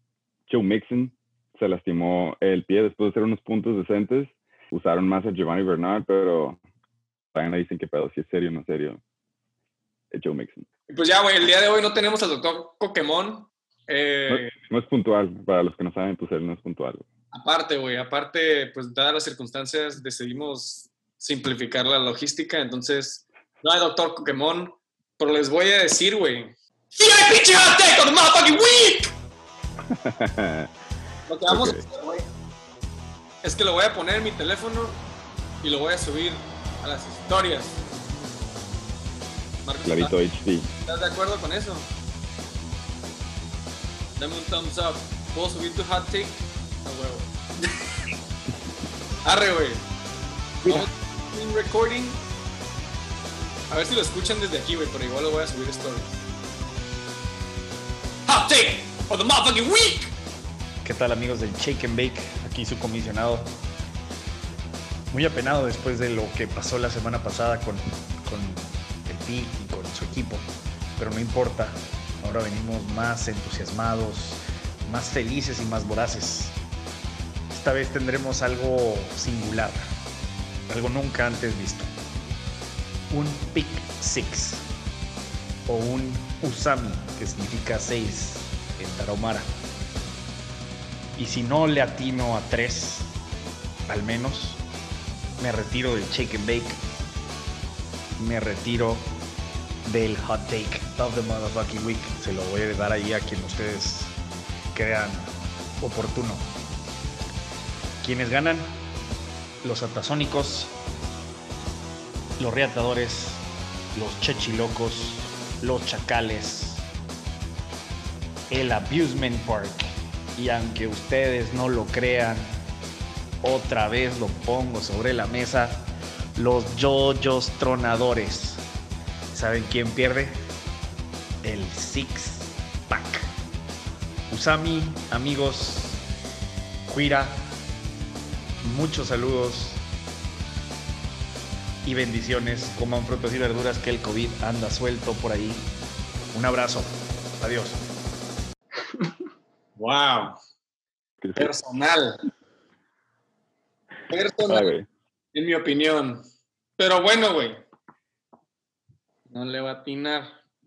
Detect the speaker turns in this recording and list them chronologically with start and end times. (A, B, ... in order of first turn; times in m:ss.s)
0:00.5-0:06.6 A
0:07.3-0:09.0 A
0:10.1-0:10.7 A
0:10.9-0:14.5 B
0:14.3-0:17.0 A
0:17.3-0:29.1 B
0:29.9-0:30.7 A
0:31.3-0:32.2 B
0:31.5-0:31.8 A
0:33.4-0:35.0 B
0:35.6-0:37.8 B
0:39.6-0:40.2 B
0:39.8-0:40.7 A
0:40.9-0:41.9 B
0:44.2-0:47.7 B
0:49.2-0:49.8 B
0:50.6-0:52.2 B
0:53.7-0:56.2 B
0:58.3-1:00.1 B
1:00.8-1:03.5 C
1:05.1-1:10.5 C
1:11.0-1:16.6 C
1:17.5-1:19.9 C
1:20.7-1:21.9 C
1:23.1-1:24.6 C
1:25.7-1:29.5 C
1:31.2-1:33.1 C
1:33.9-1:34.6 C
1:35.4-1:36.8 C
1:38.2-1:39.1 C
1:39.8-1:44.1 C
1:44.7-1:45.3 C
1:45.8-1:46.5 C
1:48.0-1:48.7 C
1:49.6-1:50.7 C
1:52.4-1:53.4 C
1:53.9-1:56.8 C
1:58.5-2:02.6 C
2:03.4-2:08.6 C
2:09.3-2:10.4 C
2:11.4-2:13.3 C
2:14.3-2:16.0 C
2:16.9-2:17.4 C
2:18.6-2:19.8 C
2:21.8-2:25.6 C
2:26.3-2:27.8 C
2:29.8-2:30.4 B
2:31.2-2:31.5 A
2:31.4-2:32.2 B
2:34.1-2:34.7 B
2:34.5-2:34.9 A
2:35.3-2:36.2 B
2:36.8-2:37.6 B
2:39.3-2:40.3 B